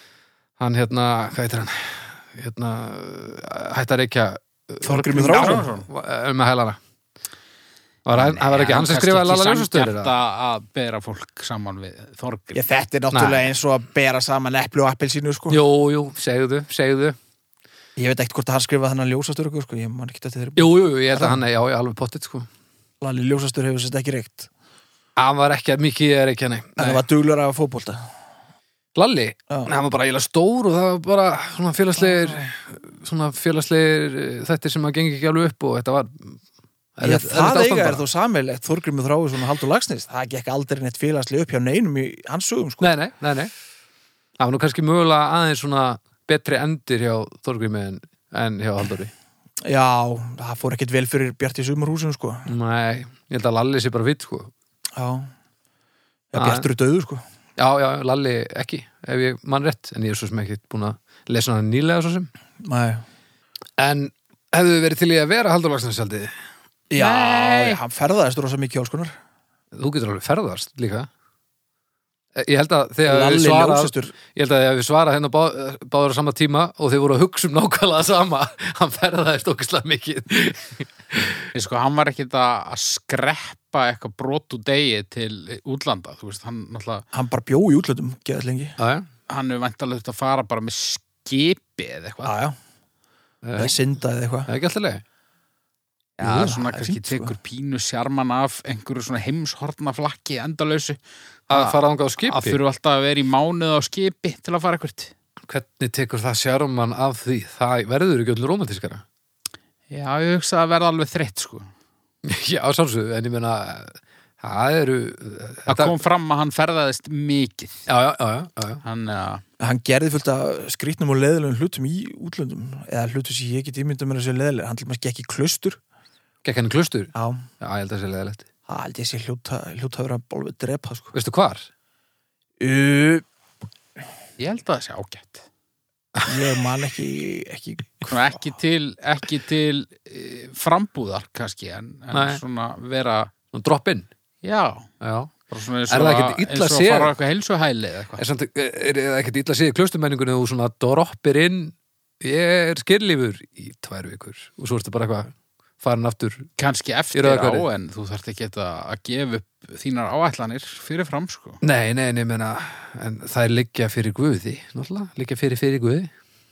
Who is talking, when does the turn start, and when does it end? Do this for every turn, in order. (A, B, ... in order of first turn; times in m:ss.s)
0:00.6-0:06.8 A
0:04.8-0:05.7 B
0:05.3-0:05.9 C
0:08.0-0:10.1 A
0:08.1-0:12.6 C
0:12.5-0:15.6 B
0:13.1-0:13.5 A
0:15.5-0:17.2 A
0:18.0-0:21.4 B
0:20.6-0:22.5 A
0:23.0-0:24.5 B
0:25.2-0:27.0 A
0:26.8-0:28.0 B
0:29.0-0:36.4 A
0:32.0-0:32.5 B
0:37.0-0:38.0 A
0:37.0-0:42.9 B
0:42.8-0:43.5 A
0:44.4-0:49.1 A
0:49.6-0:52.5 B
0:52.5-0:54.5 A
0:55.0-0:55.3 B
0:56.3-0:57.2 B
0:56.4-0:56.7 A
0:57.6-1:02.3 A
1:02.6-1:03.0 B
1:03.8-1:06.3 A
1:06.9-1:09.1 B
1:07.0-1:07.8 C
1:09.7-1:11.1 A
1:12.4-1:21.4 A
1:13.0-1:14.1 B
1:21.5-1:27.0 C
1:27.1-1:28.8 B
1:28.8-1:29.1 A
1:29.3-1:32.3 C
1:32.2-1:32.6 B
1:33.4-1:33.8 A
1:33.6-1:34.5 B
1:34.5-1:35.0 A
1:36.2-1:37.3 B
1:36.2-1:41.0 C
1:41.5-1:42.6 A
1:41.5-1:45.1 C
1:45.5-1:49.0 A
1:49.9-1:51.7 C
1:52.2-1:55.9 A
1:55.7-1:57.9 C
1:57.9-1:58.8 A
1:58.8-1:59.4 C
1:59.6-2:05.8 B
2:06.4-2:08.4 A
2:07.1-2:07.4 B
2:08.7-2:11.1 B
2:11.1-2:11.7 A
2:12.6-2:13.2 B
2:14.4-2:15.4 C
2:16.2-2:18.4 B
2:18.1-2:23.3 C
2:22.1-2:22.4 A
2:23.5-2:24.1 A
2:24.4-2:24.9 C
2:25.0-2:25.3 A
2:25.5-2:28.2 C
2:25.9-2:27.1 A
2:28.2-2:36.5 A
2:36.6-2:41.6 C
2:37.1-2:37.6 A
2:41.6-2:46.1 A